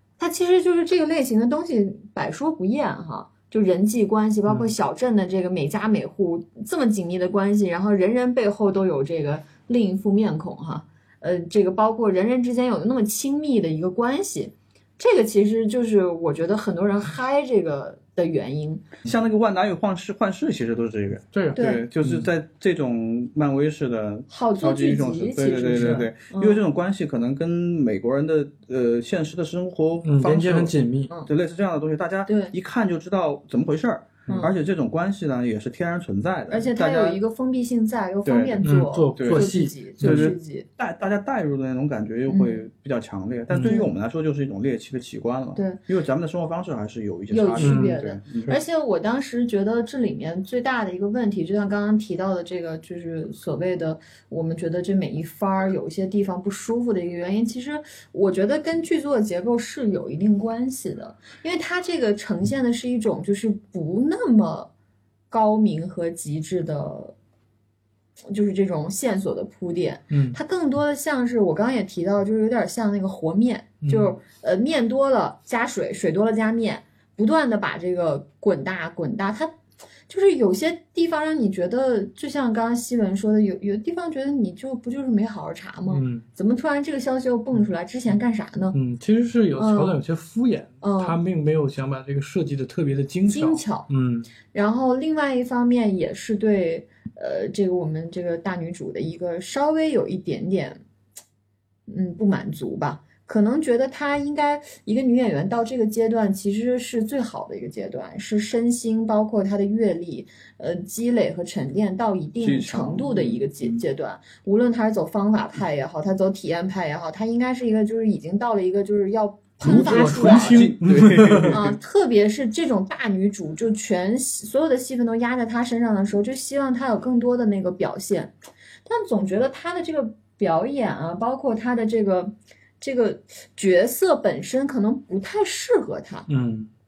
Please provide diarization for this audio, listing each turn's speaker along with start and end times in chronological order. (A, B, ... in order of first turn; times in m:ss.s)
0:00.2-0:18.8 A
0:04.5-0:04.7 B
0:19.0-0:30.7 C
0:21.3-0:22.3 B
0:21.5-0:21.9 A
0:24.3-0:26.6 A
0:25.6-0:26.1 B
0:30.0-0:31.1 B
0:31.3-0:37.2 C
0:32.3-0:32.5 A
0:36.5-0:40.7 A
0:38.2-0:48.5 C
0:38.6-0:40.3 B
0:42.3-0:42.6 A
0:43.5-0:43.8 B
0:43.6-0:43.9 A
0:47.3-1:04.7 A
0:47.6-0:48.6 B
1:05.3-1:07.2 A
1:08.3-1:19.5 A
1:10.1-1:10.4 B
1:13.8-1:14.2 B
1:20.1-1:28.8 A
1:25.9-1:26.3 B
1:28.7-1:34.3 B
1:29.6-1:30.0 A
1:30.8-1:31.2 A
1:33.3-1:33.9 A
1:34.5-1:40.8 A
1:41.9-2:00.7 A
1:52.4-1:53.8 C
1:59.6-2:01.6 B
1:59.6-2:01.8 C
2:01.5-2:08.3 A
2:08.9-2:16.3 A
2:16.3-2:16.7 B